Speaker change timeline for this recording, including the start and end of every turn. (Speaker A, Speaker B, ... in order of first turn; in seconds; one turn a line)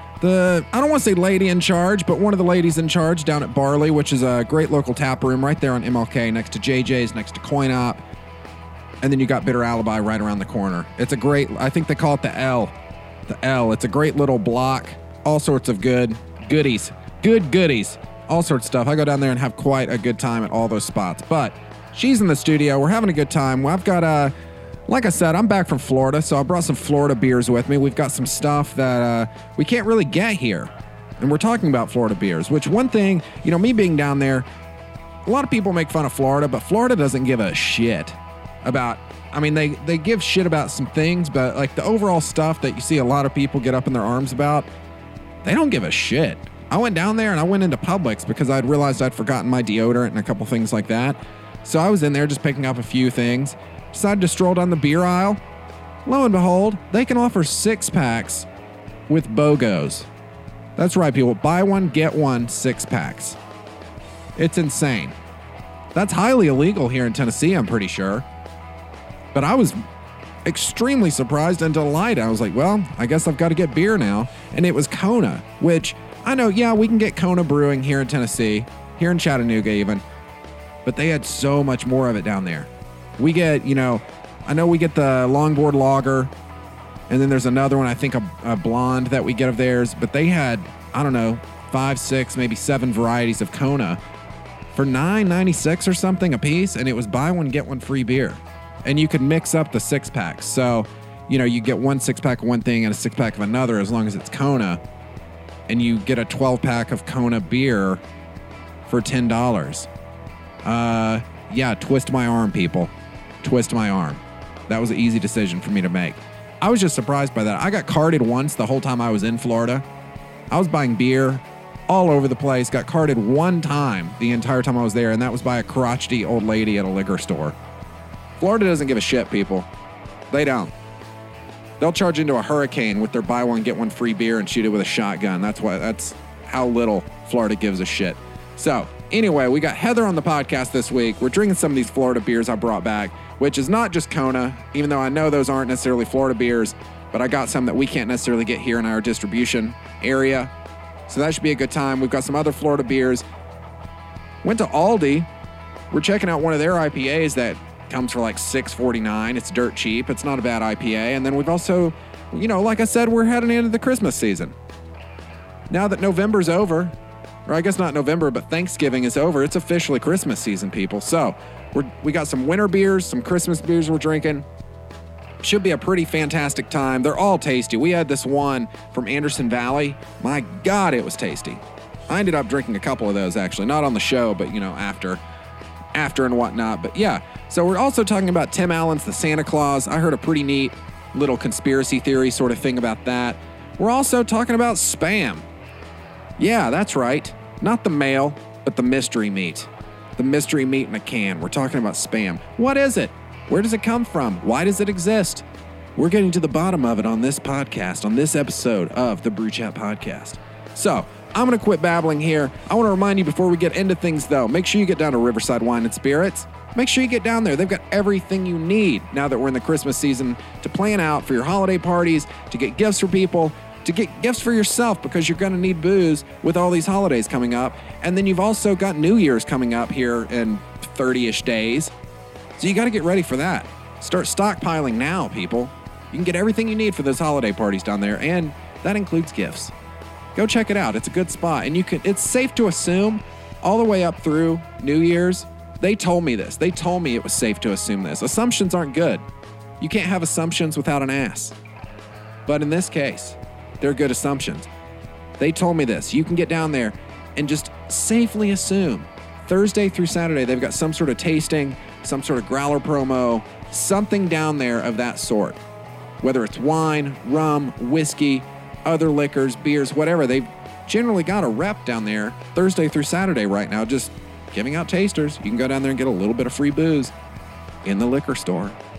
Speaker A: 0.2-8.0
Speaker A: 9.0-12.8
Speaker A: 13.3-24.4
Speaker A: 24.9-34.5
Speaker A: 35.3-44.7
Speaker A: 45.4-55.4
Speaker A: 56.1-58.5
Speaker A: 59.1-60.1
Speaker A: 60.8-63.4
Speaker A: 64.4-65.2
Speaker A: 65.9-68.2
Speaker A: 69.3-69.8
Speaker A: 70.5-80.0
Speaker A: 80.9-86.3
Speaker A: 87.1-94.0
Speaker A: 94.8-104.8
Speaker A: 105.7-108.0
Speaker A: 108.9-109.9
Speaker A: 110.6-112.9
Speaker A: 113.4-119.8
Speaker A: 120.5-127.6
Speaker A: 128.4-129.7
Speaker A: 130.3-130.7
Speaker A: 131.8-150.5
Speaker A: 151.1-153.2
Speaker A: 154.4-155.3
Speaker A: 155.9-164.6
Speaker A: 165.7-166.9
Speaker A: 167.5-174.5
Speaker A: 175.4-185.2
Speaker A: 185.9-195.5
Speaker A: 196.4-205.4
Speaker A: 206.0-231.9
Speaker A: 232.6-239.7
Speaker A: 240.3-249.2
Speaker A: 249.8-251.6
Speaker A: 252.5-254.7
Speaker A: 255.4-265.6
Speaker A: 266.2-277.1
Speaker A: 277.9-278.8